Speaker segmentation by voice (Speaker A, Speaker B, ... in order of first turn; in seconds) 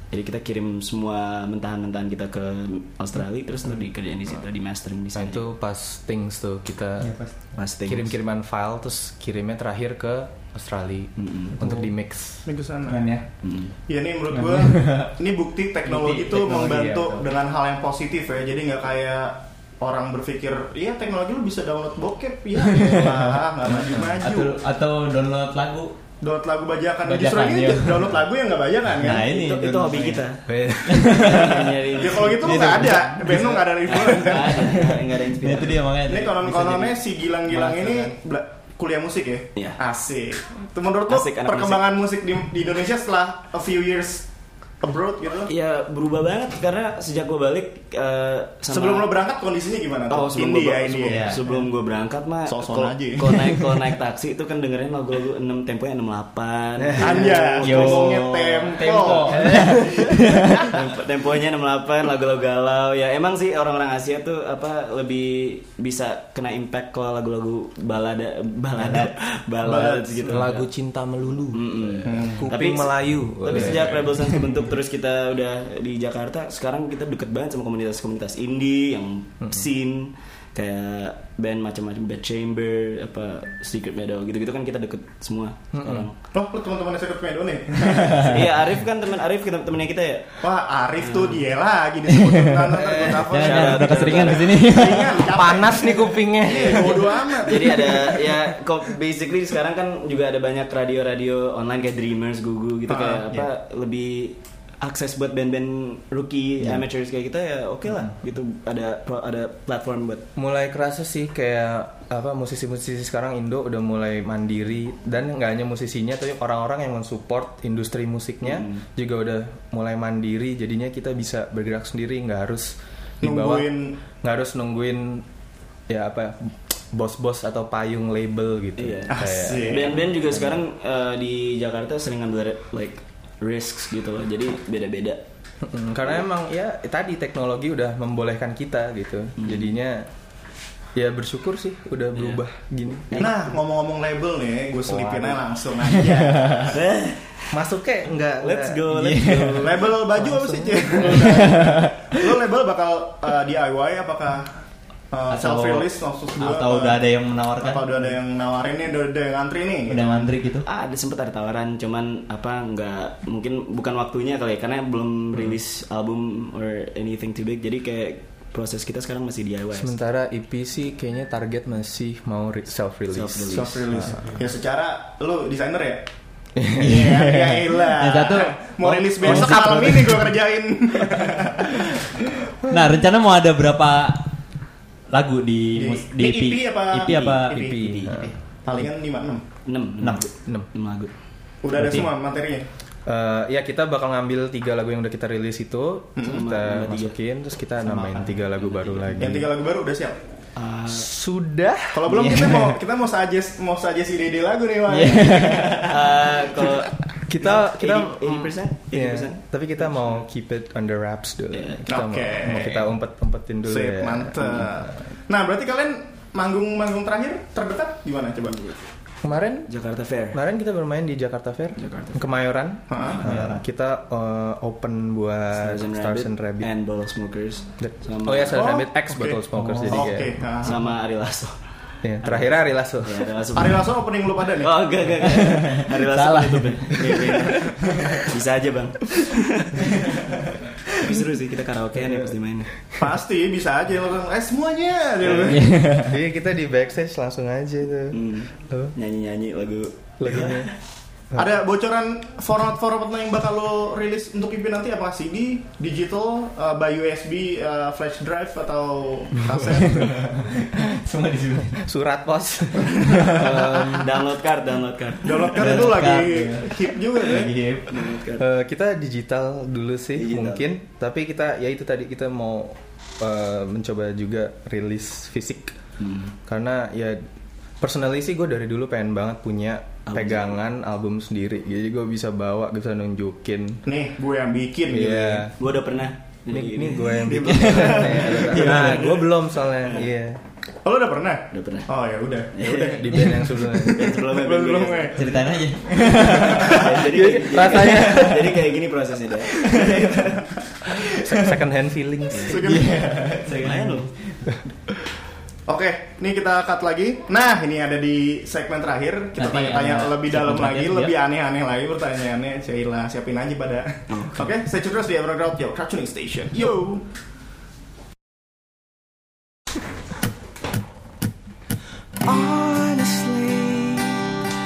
Speaker A: 0.1-5.5, 7.5-8.1, 11.2-11.6, 13.4-13.7, 29.1-35.9, 39.5-39.8, 41.1-41.8, 45.5-49.1, 50.1-58.3, 58.8-59.8, 60.6-70.6, 71.5-86.1, 88.2-90.4, 91.0-91.4, 93.4-94.6, 96.5-110.3, 118.4-118.8, 128.8-135.2, 139.4-139.7, 142.1-142.4, 143.1-143.5, 146.7-147.6, 148.4-149.6, 160.6-169.9, 173.1-174.1, 189.6-191.1, 196.2-197.2, 197.9-199.2, 200.6-201.1, 205.8-210.2, 211.5-211.8, 218.5-218.8, 219.7-220.4, 221.8-222.2, 225.5-228.6, 230.6-231.6, 232.2-233.9, 234.6-240.1, 240.9-242.7, 245.2-245.5, 248.1-250.7, 263.2-265.8, 267.9-268.4, 270.1-270.7, 276.0-276.3, 280.1-280.6, 285.5-290.1, 291.5-291.9, 292.5-295.2, 296.4-300.5, 302.9-304.1, 314.1-314.5
Speaker B: 5.2-7.1, 7.8-12.4, 30.5-31.7, 56.9-57.2, 59.3-60.2, 69.7-74.3, 85.7-86.1, 92.8-93.2, 95.2-98.1, 110.3-125.2, 125.9-130.6, 135.6-140.1, 140.9-143.3, 147.5-151.2, 169.7-174.3, 176.6-177.1, 179.2-180.3, 187.5-188.3, 193.1-199.5, 200.9-202.3, 207.2-214.9, 219.2-219.7, 220.3-226.7, 227.8-230.4, 232.0-233.3, 245.9-248.9, 250.2-250.7, 259.5-260.3, 261.8-264.1, 268.4-275.7, 276.4-277.2, 277.8-283.8, 284.9-285.6, 286.5-290.4, 292.8-294.1, 296.6-298.7, 301.0-302.6
Speaker C: 7.0-7.3, 11.6-11.9, 12.8-13.2, 14.3-15.1, 15.8-17.2, 22.6-25.9, 27.0-28.2, 28.9-30.3, 30.8-31.7, 32.3-36.9, 37.5-38.1, 51.0-51.4, 57.6-60.7, 68.8-69.2, 92.1-95.4, 145.8-146.7, 148.9-149.6, 151.1-152.2, 155.3-158.0, 159.9-160.6, 176.8-180.3, 182.7-184.3, 185.1-188.3, 191.7-192.1, 202.1-202.8, 204.9-206.0, 223.2-223.6, 229.5-230.1, 235.4-237.3, 245.4-246.2, 259.7-261.9, 263.0-263.7, 265.6-268.0, 287.4-288.0, 295.1-296.9, 302.5-304.4, 309.4-311.1
Speaker D: 12.4-13.0, 13.9-24.6, 26.2-29.3, 32.0-34.7, 36.0-44.2, 44.8-45.5, 48.7-51.3, 52.5-53.4, 57.0-60.2, 69.6-70.3, 72.0-72.4, 86.3-88.4, 90.4-97.8, 102.9-103.2, 123.2-124.0, 129.1-130.0, 143.2-146.8, 149.6-154.5, 155.1-157.0, 157.6-160.3, 173.5-176.1, 176.7-181.9, 185.8-188.0, 188.6-189.4, 191.6-192.7, 196.2-196.4, 199.2-200.2, 201.9-205.9, 211.9-212.9, 213.6-218.6, 222.9-223.2, 228.5-230.7, 233.5-234.7, 243.0-245.7, 251.3-260.3, 265.2-267.5, 283.9-285.4, 288.3-289.0, 290.8-295.4, 302.4-303.2, 305.7-317.0
Speaker E: 322.2-324.3